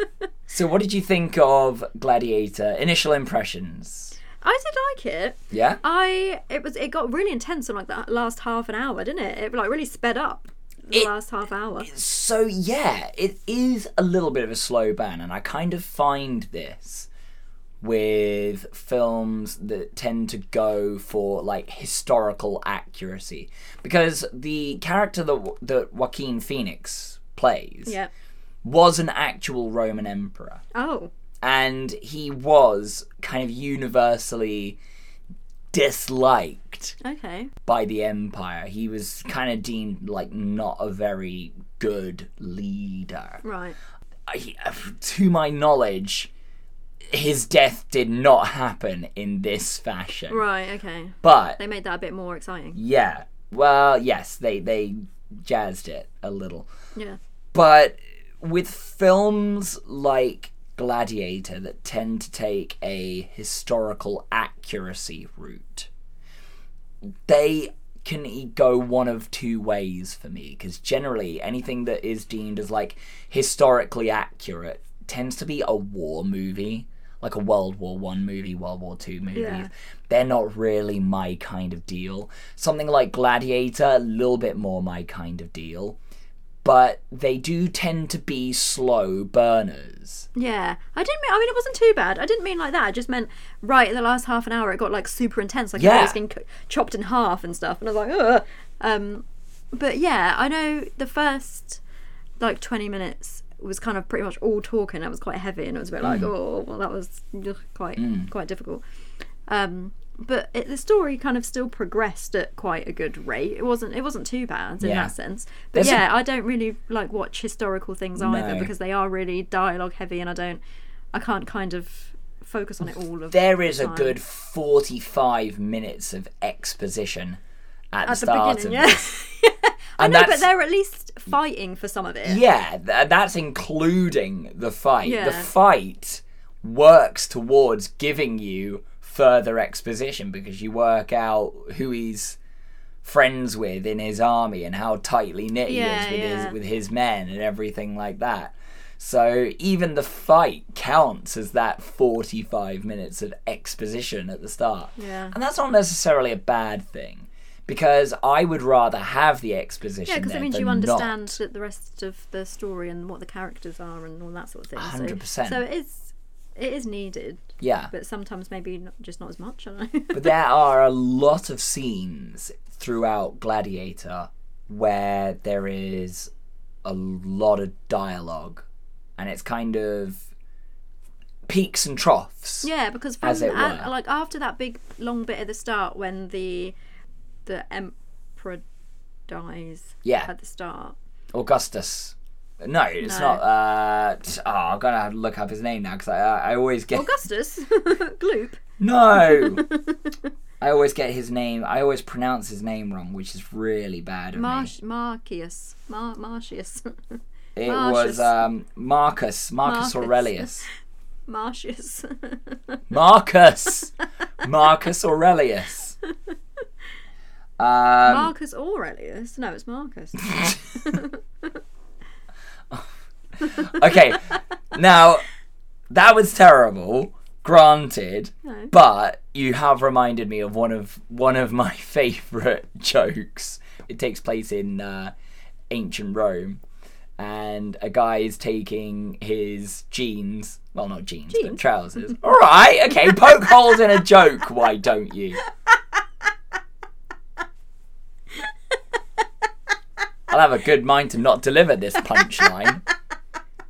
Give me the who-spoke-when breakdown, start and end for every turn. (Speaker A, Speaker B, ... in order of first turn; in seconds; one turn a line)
Speaker A: 0.5-4.2
Speaker B: 4.4-11.9
Speaker A: 5.5-5.8
Speaker A: 11.8-17.1
Speaker A: 17.8-27.9
Speaker A: 28.6-30.6
Speaker B: 30.7-31.1
Speaker A: 31.4-34.8
Speaker A: 35.7-37.0
Speaker B: 37.0-37.5
Speaker A: 37.7-43.4
Speaker B: 43.4-43.8
Speaker A: 44.3-46.3
Speaker A: 47.1-50.4
Speaker B: 50.3-52.8
Speaker A: 51.2-51.6
Speaker A: 52.8-56.7
Speaker A: 57.5-65.9
Speaker A: 67.3-86.0
Speaker B: 79.3-79.7
Speaker A: 86.6-90.3
Speaker B: 90.3-101.8
Speaker A: 95.8-96.2
Speaker B: 102.4-108.8
Speaker A: 106.0-106.3
Speaker A: 108.0-108.3
Speaker B: 109.5-120.6
Speaker A: 114.8-115.1
Speaker A: 115.7-116.0
Speaker A: 118.2-118.7
Speaker B: 121.1-124.2
Speaker A: 123.3-127.4
Speaker A: 127.9-129.1
Speaker B: 128.1-132.4
Speaker A: 130.0-130.5
Speaker A: 132.2-142.4
Speaker B: 135.0-135.5
Speaker A: 143.0-161.4
Speaker B: 145.7-146.6
Speaker B: 155.0-155.3
Speaker B: 160.1-170.3
Speaker A: 164.8-165.6
Speaker A: 167.6-167.9
Speaker A: 170.1-176.3
Speaker A: 176.8-178.7
Speaker A: 179.2-180.2
Speaker A: 181.5-182.7
Speaker B: 182.6-186.8
Speaker A: 183.2-183.9
Speaker B: 187.5-188.6
Speaker B: 189.3-191.0
Speaker A: 190.1-190.3
Speaker A: 191.3-197.1
Speaker B: 193.0-193.4
Speaker B: 196.9-198.6
Speaker A: 198.8-199.6
Speaker B: 199.2-200.1
Speaker A: 200.6-204.7
Speaker B: 204.3-208.4
Speaker A: 207.6-210.7
Speaker B: 209.6-210.5
Speaker B: 211.3-212.8
Speaker A: 212.9-213.9
Speaker A: 214.4-215.9
Speaker A: 217.6-218.3
Speaker B: 218.0-221.5
Speaker A: 222.7-225.2
Speaker A: 225.9-235.1
Speaker B: 228.4-228.7
Speaker A: 235.7-236.6
Speaker A: 237.2-245.4
Speaker B: 241.3-242.2
Speaker A: 250.3-252.8